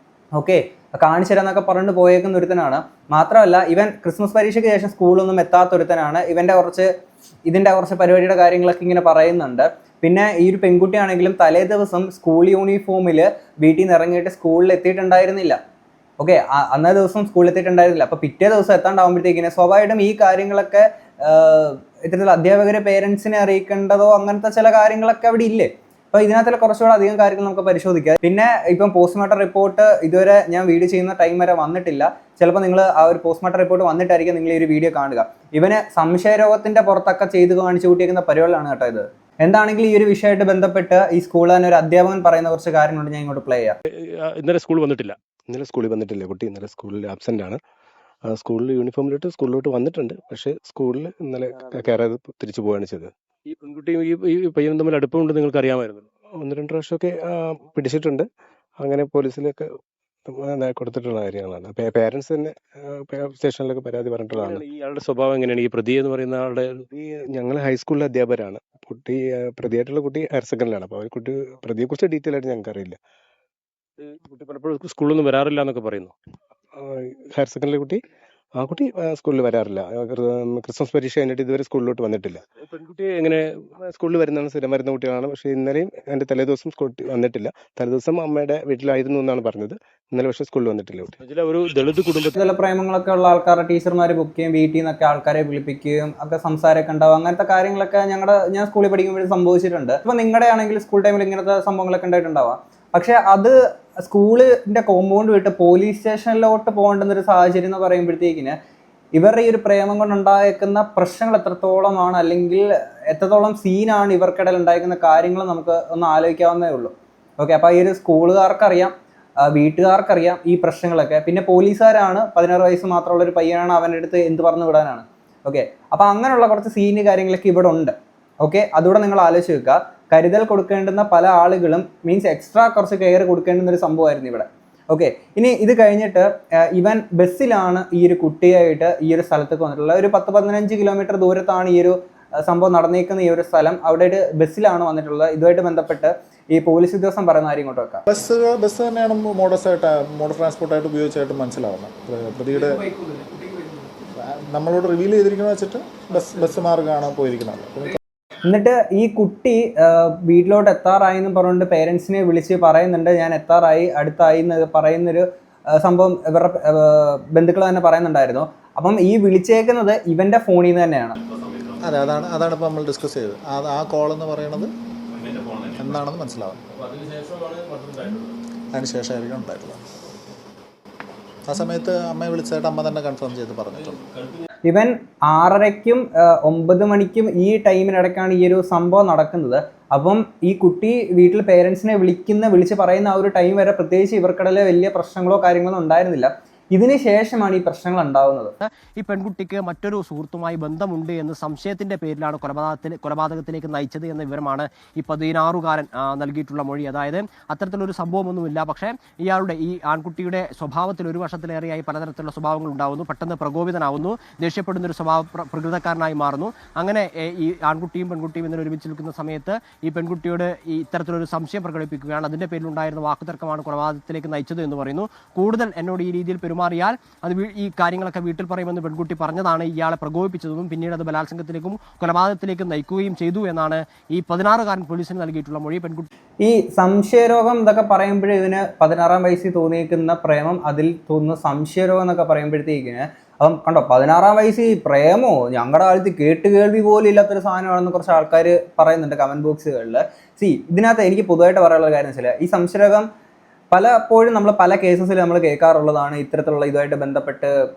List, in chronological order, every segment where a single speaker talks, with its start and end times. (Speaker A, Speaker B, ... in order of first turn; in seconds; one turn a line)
Speaker A: 0.3-6.9
Speaker A: 7.5-15.6
Speaker A: 16.2-43.7
Speaker B: 44.2-45.1
Speaker C: 45.5-47.6
Speaker C: 48.2-53.1
Speaker B: 53.5-56.0
Speaker C: 56.4-58.2
Speaker C: 58.8-59.6
Speaker C: 60.3-64.6
Speaker B: 64.3-66.8
Speaker C: 66.9-73.0
Speaker B: 74.0-76.1
Speaker C: 76.8-78.0
Speaker C: 78.5-82.4
Speaker B: 82.7-83.4
Speaker C: 83.8-91.1
Speaker B: 91.2-92.3
Speaker A: 92.3-108.6
Speaker A: 109.1-118.9
Speaker A: 119.4-148.0
Speaker D: 148.1-152.8
Speaker E: 152.6-153.8
Speaker D: 154.2-158.0
Speaker A: 158.4-171.1
Speaker B: 171.3-171.8
Speaker D: 171.8-174.7
Speaker B: 175.2-175.9
Speaker D: 175.8-176.6
Speaker B: 176.7-178.4
Speaker D: 178.7-179.8
Speaker D: 181.4-184.0
Speaker B: 183.7-184.5
Speaker A: 184.7-198.5
Speaker E: 198.6-236.1
Speaker A: 236.4-253.1
Speaker A: 253.7-257.5